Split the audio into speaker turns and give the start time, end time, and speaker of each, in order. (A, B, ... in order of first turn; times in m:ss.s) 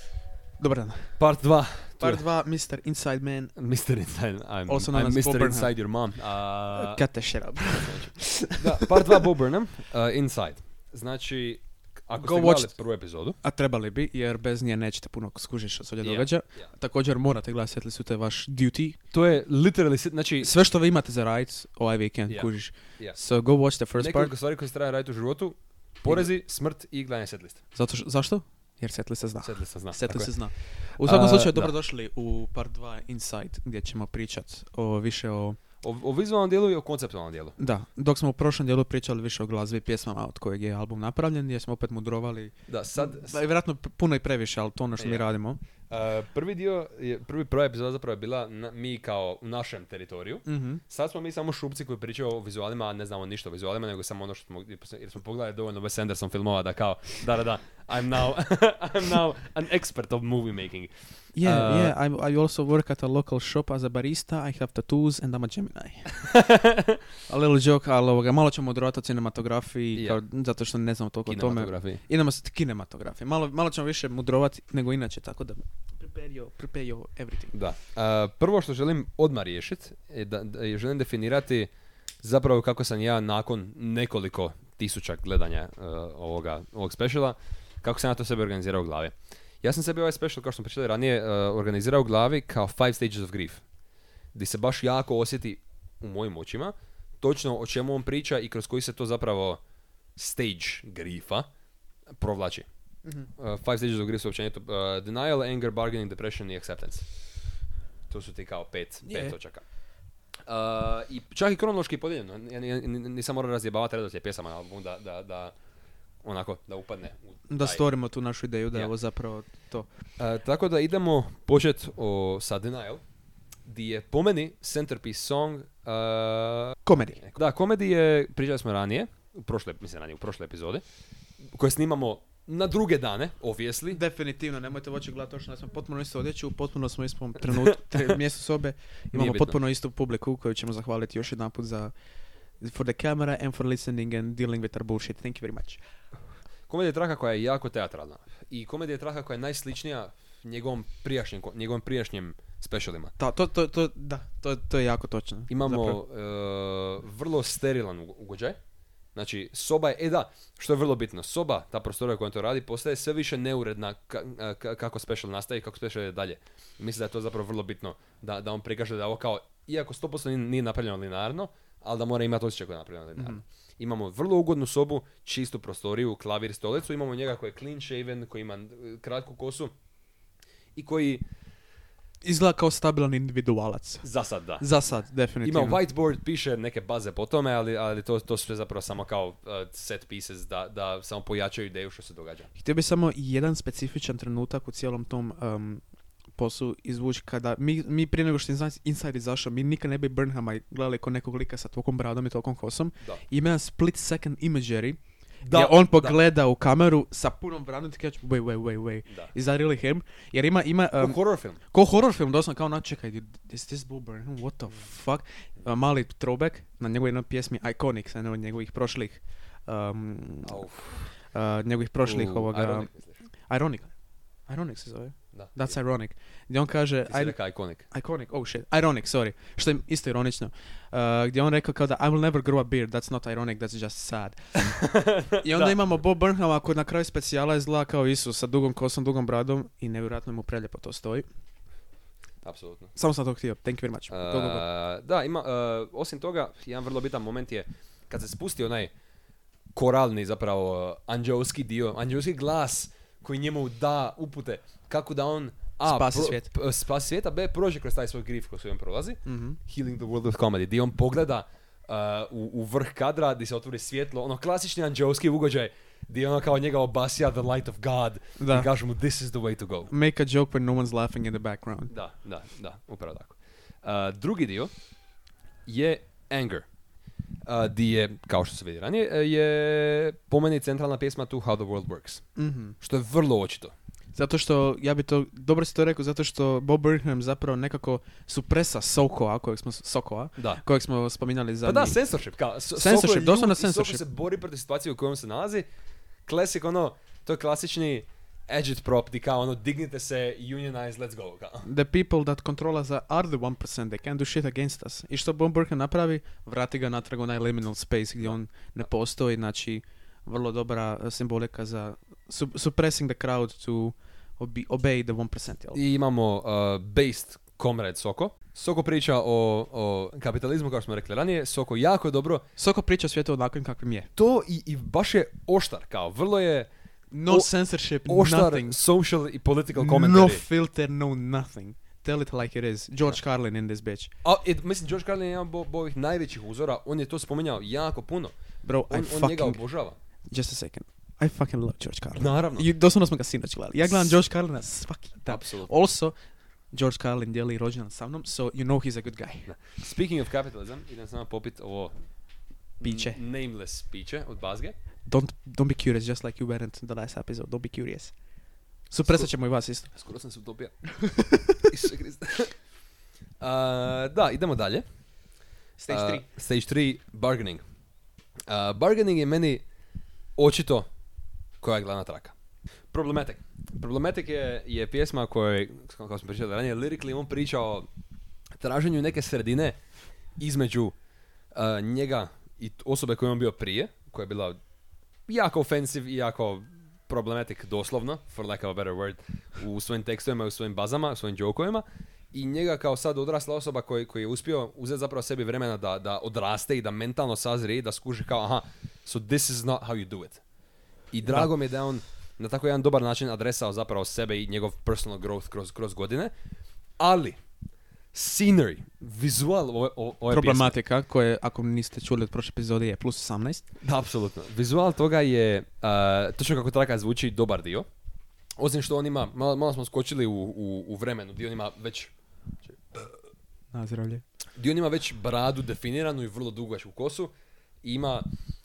0:00.6-0:01.2 A
0:01.2-0:02.2 B
0:02.0-0:03.5 A
0:03.6-0:07.0 B
0:04.7-0:05.7 A
0:06.8-0:09.3 A
0:07.8-0:13.4 B
0:12.2-0:12.7 A
0:13.4-0:19.0 A
0:16.0-0:16.3 B
0:19.1-0:20.5 B
0:20.4-0:24.3 A
0:22.3-0:23.2 B
0:24.0-0:27.6 B
0:27.8-0:35.6 A
0:29.4-0:30.3 B
0:31.0-0:31.7 B
0:35.8-0:37.6 B
0:37.6-0:45.6 A
0:42.7-0:43.4 B
0:45.0-0:45.3 B
0:45.9-1:00.9 B
0:50.5-0:50.8 A
1:01.4-1:06.2 A
1:01.4-1:01.9 B
1:06.2-1:07.0 B
1:07.3-1:17.6 A
1:11.3-1:12.0 B
1:17.5-1:21.7 B
1:22.2-1:33.6 B
1:34.3-1:39.6 B
1:40.2-1:41.5 B
1:42.1-1:42.7 B
1:43.4-1:47.0 B
1:48.1-1:49.6 B
1:49.1-1:49.4 A
1:50.5-1:55.6 B
1:56.2-1:57.8 B
1:57.5-1:59.9 A
2:00.2-2:03.0 B
2:03.7-2:10.8 B
2:06.9-2:07.2 A
2:11.4-2:14.0 B
2:13.9-2:21.9 A
2:17.5-2:18.1 B
2:19.1-2:19.6 B
2:22.6-2:25.8 A
2:26.7-2:33.1 B
2:33.2-2:36.0 A
2:35.5-2:38.6 B
2:39.2-2:59.7 B
2:53.2-2:53.4 A
3:00.8-3:01.2 B
3:02.2-3:04.0 A
3:04.0-3:04.6 B
3:04.6-3:05.8 A
3:05.4-3:12.5 B
3:12.6-3:15.8 A
3:16.4-3:25.0 A
3:25.4-3:26.2 B
3:25.5-3:31.2 A
3:31.0-3:31.6 B
3:31.7-3:40.7 A
3:40.4-3:41.1 B
3:41.3-3:42.9 A
3:42.0-3:43.2 B
3:43.5-3:43.9 A
3:44.5-3:47.4 A
3:45.3-3:45.7 B
3:47.1-3:47.8 B
3:47.9-3:54.6 A
3:54.6-3:55.8 B
3:55.4-4:01.3 A
4:02.4-4:02.9 B
4:03.0-4:04.6 A
4:04.1-4:08.9 B
4:09.7-4:29.9 B
4:15.8-4:16.5 A
4:19.3-4:19.6 A
4:28.4-4:28.7 A
4:29.9-4:31.9 A
4:31.9-4:34.7 B
4:35.7-4:36.7 B
4:37.5-4:42.3 B
4:42.4-4:42.8 A
4:42.8-4:43.7 B
4:44.2-4:52.0 A
4:51.6-4:55.6 B
4:52.8-4:54.0 A
4:56.3-5:01.7 B
5:01.6-5:15.8 A
5:15.7-5:22.4 B
5:22.6-5:24.1 A
5:24.2-5:26.7 B
5:27.1-5:28.8 A
5:28.1-5:30.4 B
5:29.7-5:34.1 A
5:34.2-5:38.3 B
5:38.6-5:39.6 A
5:38.9-5:40.0 B
5:40.3-5:46.1 A
5:42.2-5:42.7 B
5:45.3-5:45.7 B
5:46.7-5:49.5 A
5:49.5-5:51.9 B
5:52.8-5:54.8 B
5:52.8-5:53.2 A
5:55.1-5:58.1 A
5:58.9-5:59.9 A
5:59.9-6:00.7 B
6:01.0-6:01.6 A
6:01.6-6:02.5 B
6:03.4-6:04.8 B
6:05.8-6:06.2 A
6:05.9-6:07.6 B
6:08.5-6:09.6 B
6:10.4-6:10.9 B
6:11.6-6:12.3 B
6:12.9-6:17.9 B
6:18.6-6:19.8 B
6:20.4-6:21.0 B
6:21.5-6:24.6 B
6:25.3-6:40.4 B
6:41.1-6:46.3 B
6:41.3-6:41.5 A
6:47.0-6:47.4 B
6:48.1-6:50.7 B
6:50.3-6:53.6 A
6:53.8-6:57.9 B
6:58.6-7:02.1 B
7:02.6-7:03.1 B
7:03.7-7:04.2 A
7:04.6-7:07.3 B
7:07.8-7:08.3 B